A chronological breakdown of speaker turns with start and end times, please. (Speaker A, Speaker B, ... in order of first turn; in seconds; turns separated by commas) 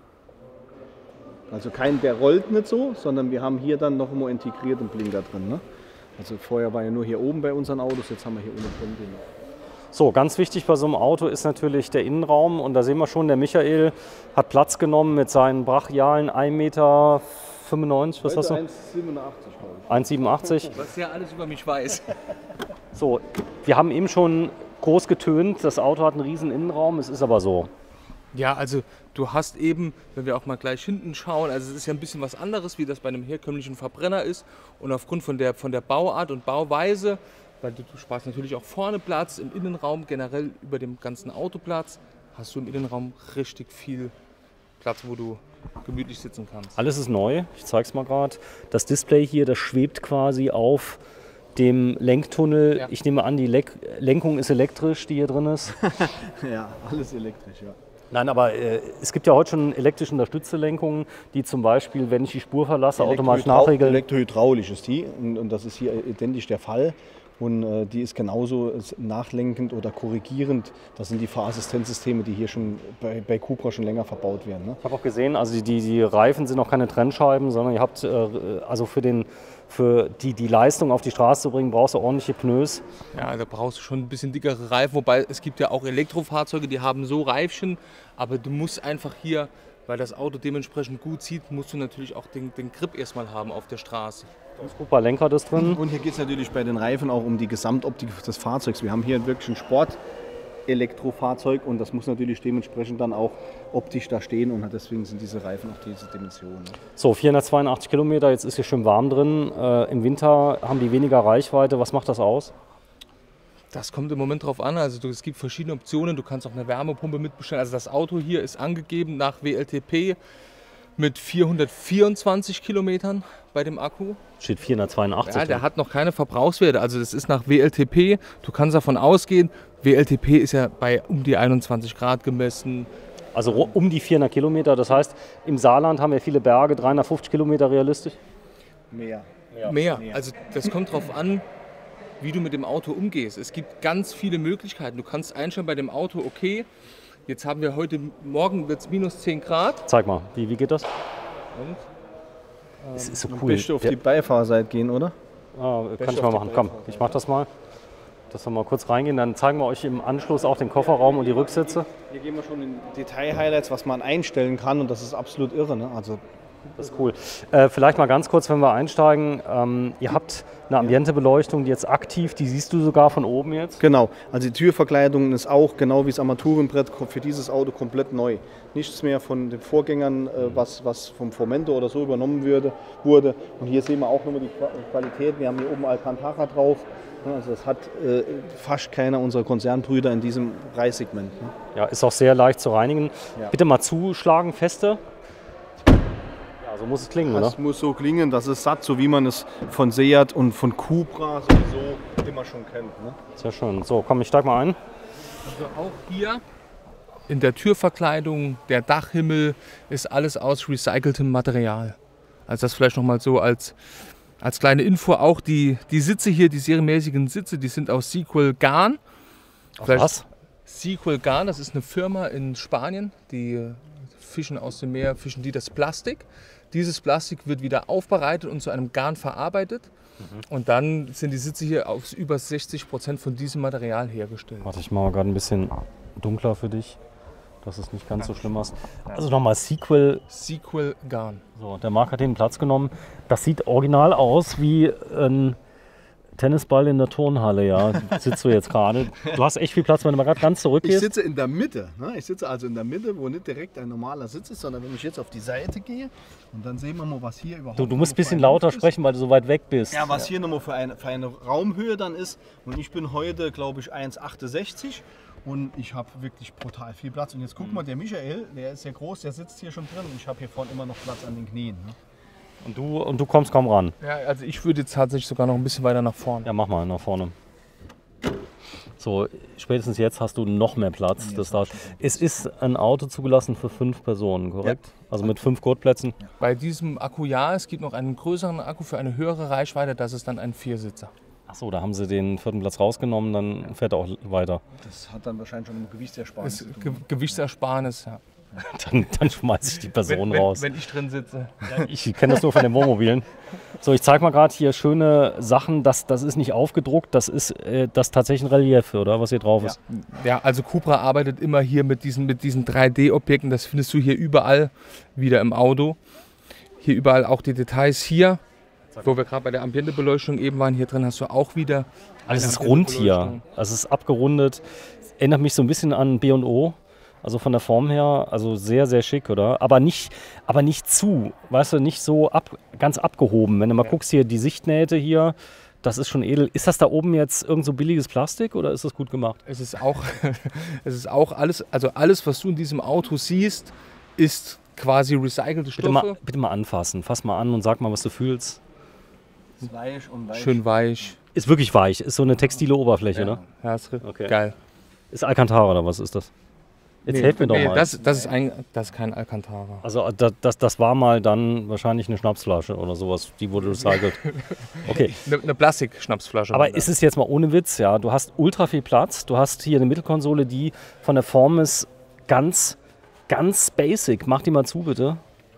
Speaker A: 1.5-5.6, Speaker A: 6.2-9.3, Speaker B: 9.9-18.6, Speaker A: 18.2-20.1, Speaker B: 19.9-20.7, Speaker C: 20.7-22.1, Speaker B: 22.9-27.7, Speaker C: 28.3-44.1, Speaker C: 44.8-46.8, Speaker B: 46.8-51.0, Speaker B: 51.6-55.8, Speaker A: 55.8-57.8, Speaker B: 58.1-64.0, Speaker A: 63.0-74.8, Speaker B: 74.8-82.8, Speaker C: 83.1-94.3, Speaker B: 94.6-95.8, Speaker A: 95.5-100.0, Speaker A: 100.7-106.8, Speaker B: 107.0-112.5, Speaker C: 113.7-120.2, Speaker C: 121.0-124.2, Speaker B: 124.4-125.6, Speaker C: 125.2-132.9, Speaker B: 133.3-138.2, Speaker A: 138.9-139.3, Speaker C: 139.7-141.4, Speaker A: 139.9-140.2, Speaker C: 142.2-146.7, Speaker C: 147.3-149.9, Speaker B: 149.9-150.9, Speaker C: 151.5-151.9, Speaker C: 152.8-153.2, Speaker B: 152.9-153.9, Speaker A: 153.3-155.2, Speaker B: 155.6-157.5, Speaker C: 156.0-156.7, Speaker A: 156.3-157.1, Speaker B: 158.3-161.9, Speaker A: 160.8-166.2, Speaker B: 166.8-173.8, Speaker A: 173.8-191.6, Speaker B: 191.8-195.0, Speaker B: 196.6-197.6, Speaker A: 197.2-203.2, Speaker B: 203.4-204.8, Speaker C: 205.4-206.4, Speaker C: 207.3-212.0, Speaker C: 212.5-213.8, Speaker C: 214.4-219.0, Speaker B: 219.8-220.2, Speaker C: 219.8-229.9, Speaker C: 230.5-234.7, Speaker B: 234.6-237.0, Speaker B: 237.6-240.2, Speaker C: 238.2-238.5, Speaker C: 240.3-241.4, Speaker B: 241.6-245.6, Speaker B: 246.4-251.1, Speaker A: 250.8-258.9, Speaker B: 257.8-260.2, Speaker A: 259.9-272.0, Speaker B: 272.6-273.9, Speaker C: 274.0-276.5, Speaker B: 276.4-277.3, Speaker B: 279.0-286.2, Speaker A: 281.2-282.2, Speaker C: 286.4-291.1, Speaker B: 291.5-294.6, Speaker A: 294.8-297.1, Speaker C: 296.4-298.2, Speaker B: 298.6-300.7, Speaker C: 300.1-301.7, Speaker B: 301.6-303.3, Speaker B: 303.8-309.8, Speaker C: 309.9-316.0, Speaker C: 316.8-318.4, Speaker B: 318.9-319.2, Speaker C: 319.0-323.4, Speaker B: 322.3-324.6, Speaker B: 325.2-339.4, Speaker C: 339.5-346.2, Speaker B: 345.8-348.6, Speaker A: 349.6-350.6, Speaker C: 350.3-351.2, Speaker B: 351.4-353.4, Speaker C: 353.2-354.6, Speaker B: 354.0-354.3, Speaker B: 355.1-356.3, Speaker B: 357.1-357.9, Speaker C: 357.1-359.8, Speaker A: 357.7-358.3, Speaker B: 359.8-364.2, Speaker C: 363.7-366.9, Speaker B: 364.8-365.2, Speaker B: 366.5-372.8, Speaker B: 373.3-375.2